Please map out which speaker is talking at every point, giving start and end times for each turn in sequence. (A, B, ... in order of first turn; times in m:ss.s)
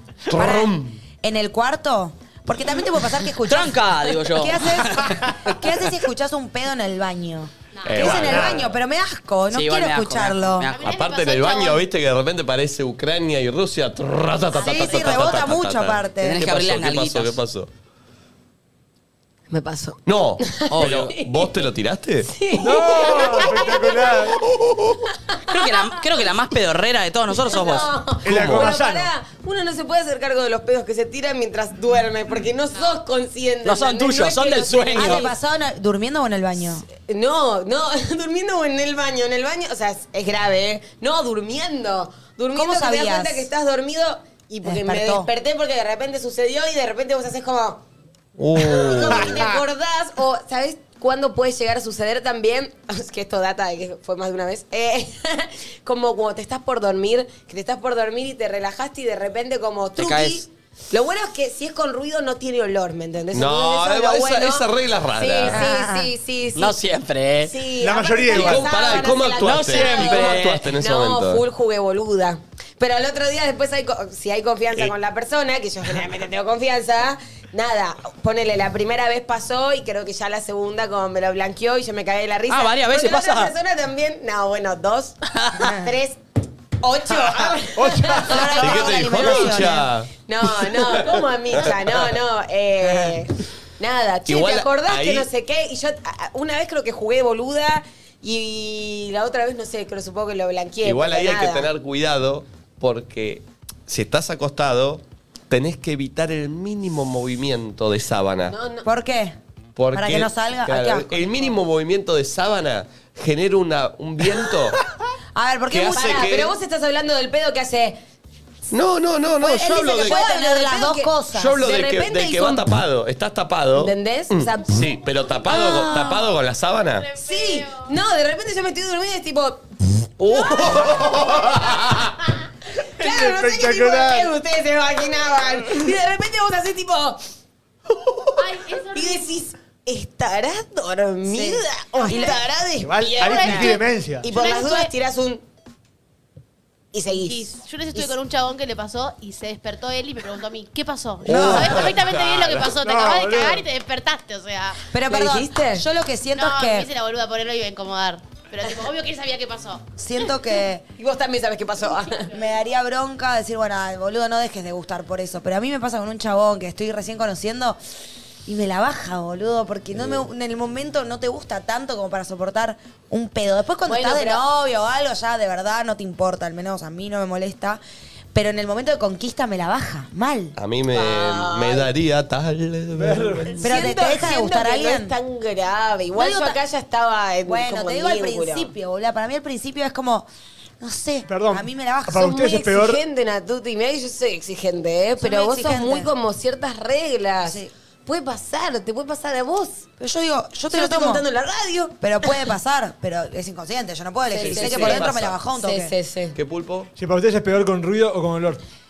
0:00.3-0:00.9 A
0:00.3-0:10.7 B
0:03.4-0:05.6 C
0:07.7-0:08.2 D
0:07.8-0:08.7 A
0:08.2-0:08.6 E
0:09.5-0:10.9 C
0:10.7-0:11.8 D
0:10.8-0:17.7 A
0:14.5-0:15.2 D
0:14.5-0:16.4 B
0:16.2-0:17.4 C
0:19.5-0:21.6 F
0:20.0-0:22.3 A
0:20.7-0:21.2 C
0:22.2-0:24.3 F
0:22.5-0:24.4 E
0:24.4-0:25.0 A
0:25.3-0:25.9 F
0:25.5-0:27.9 C
0:27.4-0:35.3 F
0:28.2-0:29.1 E
0:28.2-0:28.7 A
0:32.7-0:33.0 D
0:33.6-0:35.3 C
0:34.9-0:36.8 B
0:36.9-0:47.8 F
0:42.5-0:43.5 B
0:44.6-0:45.3 B
0:48.4-0:49.5 A
0:48.6-1:06.8 F
1:00.0-1:00.4 C
1:03.3-1:05.6 A
1:05.4-1:06.1 B
1:06.6-1:07.6 C
1:07.4-1:26.2 F
1:07.8-1:08.7 E
1:08.3-1:11.4 A
1:09.4-1:10.6 C
1:22.5-1:23.5 C
1:26.8-1:29.2 F
1:27.2-1:28.5 E
1:28.3-1:29.9 B
1:28.5-1:30.1 A
1:30.2-1:41.7 F
1:30.6-1:32.0 A
1:34.2-1:35.3 A
1:40.8-1:48.6 A
1:48.5-1:48.9 F
1:48.8-1:49.4 B
1:49.8-1:54.8 A
1:49.9-1:51.5 B
1:55.3-1:56.4 B
1:55.7-1:56.5 A
1:55.9-1:58.0 F
1:58.7-2:00.2 A
1:59.4-2:02.8 F
1:59.4-2:01.6 B
2:01.3-2:07.1 A
2:03.7-2:04.9 F
2:05.5-2:06.2 B
2:07.0-2:07.9 D
2:07.2-2:09.7 F
2:10.2-2:12.1 A
2:10.2-2:12.4 F
2:13.0-2:14.3 E
2:13.0-2:17.2 F
2:18.4-2:19.4 D
2:18.9-2:25.4 F
2:21.2-2:22.4 B
2:22.8-2:24.3 E
2:23.1-2:24.9 D
2:26.9-2:28.1 F
2:27.1-2:34.8 D
2:31.3-2:31.9 B
2:31.3-2:31.8 E
2:31.3-2:32.6 A
2:32.6-2:33.6 E
2:34.9-2:36.9 B
2:35.1-2:35.8 F
2:36.3-2:40.2 D
2:40.0-2:40.8 B
2:41.0-2:42.3 F
2:41.8-2:42.4 D
2:42.3-2:47.8 B
2:48.4-2:57.8 B
2:53.9-2:54.4 F
2:58.3-3:00.6 B
3:00.6-3:03.5 A
3:00.9-3:01.9 F
3:02.9-3:03.6 E
3:03.5-3:08.7 F
3:03.6-3:05.2 B
3:06.1-3:06.6 B
3:07.4-3:10.3 B
3:10.8-3:12.2 B
3:11.2-3:13.0 E
3:12.2-3:19.9 F
3:15.2-3:16.1 B
3:17.4-3:17.7 B
3:20.0-3:21.2 B
3:20.7-3:22.3 F
3:22.0-3:25.9 B
3:24.3-3:26.4 F
3:24.5-3:25.4 A
3:26.3-3:26.9 A
3:27.0-3:28.6 E